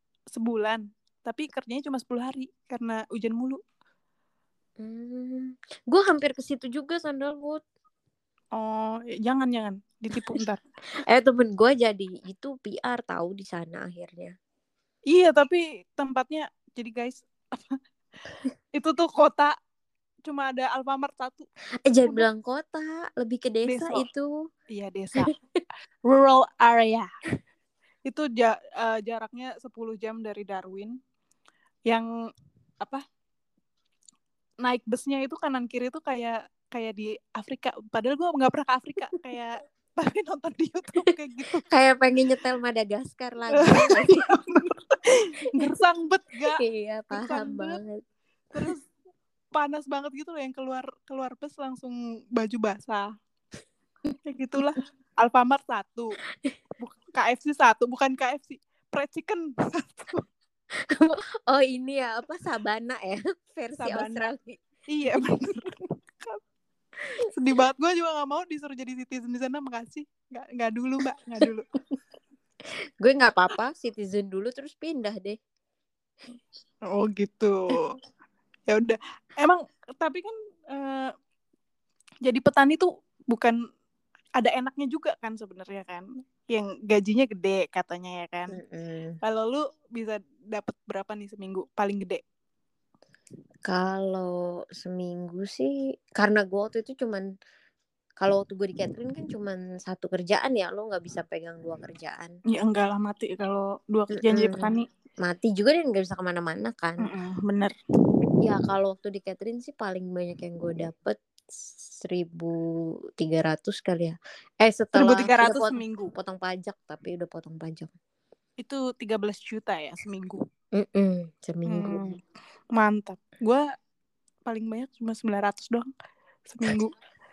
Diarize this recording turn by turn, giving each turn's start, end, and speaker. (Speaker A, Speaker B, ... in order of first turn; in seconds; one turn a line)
Speaker A: 0.3-3.6
Speaker B: 4.8-7.6
Speaker A: 8.5-10.6
Speaker B: 11.1-14.3
Speaker A: 15.1-17.8
Speaker A: 18.7-19.5
Speaker A: 20.3-21.4
Speaker B: 21.9-24.3
Speaker A: 23.6-24.1
Speaker A: 24.7-25.3
Speaker B: 25.3-25.6
Speaker A: 26.0-27.1
Speaker A: 28.1-30.9
Speaker A: 34.6-41.6
Speaker B: 41.7-44.2
Speaker A: 43.5-46.6
Speaker B: 46.6-48.0
Speaker A: 47.1-47.8
Speaker A: 48.5-48.9
Speaker A: 49.5-53.1
Speaker A: 54.3-56.1
Speaker A: 56.8-60.2
Speaker B: 60.8-64.6
Speaker A: 63.8-64.3
Speaker A: 64.9-66.4
Speaker A: 67.3-71.7
Speaker B: 73.0-75.4
Speaker A: 76.9-78.0
Speaker A: 78.7-81.1
Speaker A: 82.2-83.5
Speaker A: 84.4-88.6
Speaker B: 88.5-89.2
Speaker A: 89.2-92.2
Speaker B: 93.7-97.3
Speaker B: 98.2-102.3
Speaker A: 102.5-104.8
Speaker B: 104.1-104.7
Speaker B: 105.2-107.1
Speaker A: 107.0-107.7
Speaker B: 108.4-111.2
Speaker B: 112.0-112.6
Speaker B: 113.2-117.9
Speaker A: 114.9-116.1
Speaker A: 118.6-120.4
Speaker B: 120.8-122.0
Speaker A: 121.7-122.2
Speaker A: 122.7-123.6
Speaker A: 124.5-125.9
Speaker A: 126.5-126.9